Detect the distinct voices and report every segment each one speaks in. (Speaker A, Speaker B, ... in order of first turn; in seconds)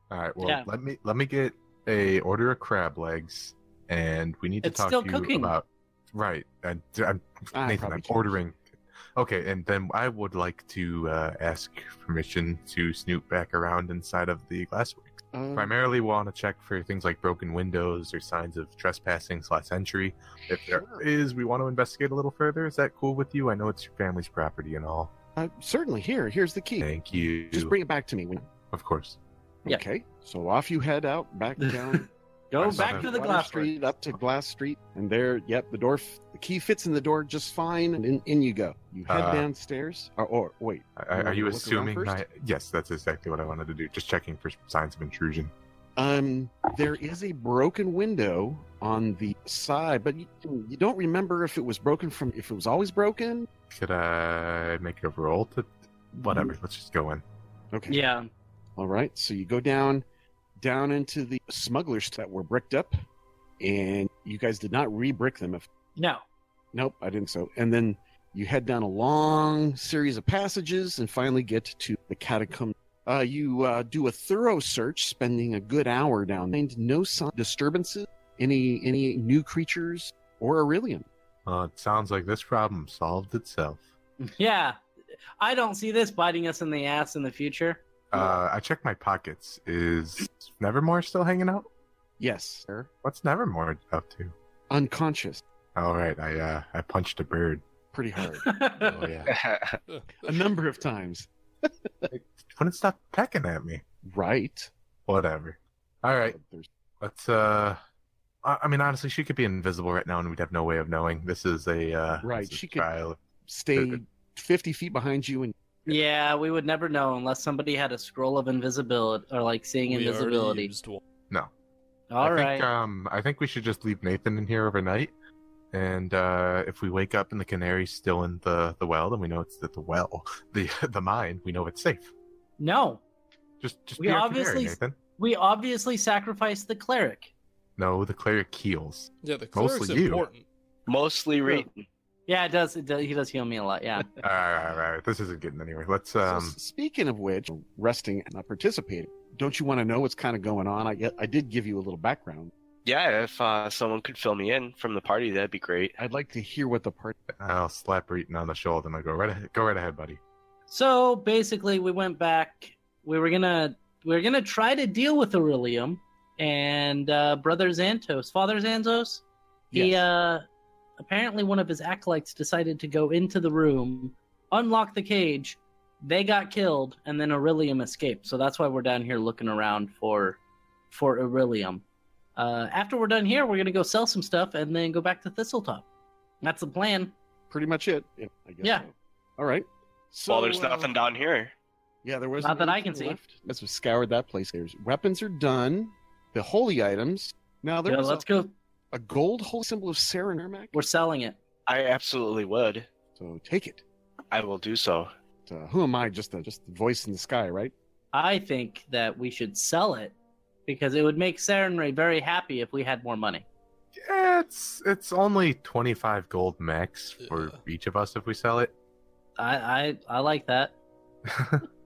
Speaker A: 0.1-25.1, 26.8-27.7, 28.7-29.2, 32.6-33.4, 39.1-39.5, 41.0-45.5, 53.7-57.2, 81.5-83.8, 88.1-91.7, 93.0-94.3, 95.7-97.6, 98.8-99.3, 102.1-103.8, 105.1-106.4, 107.0-107.8, 108.4-113.2, 113.7-114.0, 122.2-125.1, 125.7-132.1, 133.6-134.9, 137.8-140.2, 144.2-146.5, 157.3-160.2, 213.9-218.7, 221.2-221.6
Speaker B: 0.4-0.7, 4.6-5.5, 31.6-33.7, 57.9-58.3, 66.0-66.2, 84.2-84.8, 85.4-87.8, 98.4-99.0, 115.9-120.7, 122.1-122.7, 132.6-133.0, 134.0-137.3, 142.3-144.1, 160.7-170.4, 171.0-180.4, 180.9-181.8, 182.3-185.8, 186.4-187.1, 188.6-188.9, 192.4-193.2, 197.8-198.5, 200.7-201.4, 208.1-210.1, 210.7-213.4, 219.4-220.7
Speaker C: 7.5-8.4, 15.3-15.7, 20.7-21.0, 25.4-26.9, 27.5-28.5, 29.6-42.2, 46.0-53.5, 56.2-56.5, 57.7-58.0, 58.8-60.0, 60.6-62.9, 63.6-65.7, 66.7-81.1, 92.2-92.9, 94.7-95.4, 97.9-98.5, 100.2-102.1, 104.0-104.7, 106.2-106.7, 112.2-112.8, 113.5-115.5, 146.2-152.5, 156.0-157.1, 169.7-170.1, 187.5-190.9, 192.0-198.2, 198.9-200.8, 203.2-203.8, 205.5-207.7
Speaker D: 99.2-99.8, 140.9-141.8, 152.8-155.9, 190.3-191.5, 201.7-202.9, 204.3-205.1
Speaker E: 99.9-100.4, 119.9-121.0, 139.2-140.4, 217.2-217.5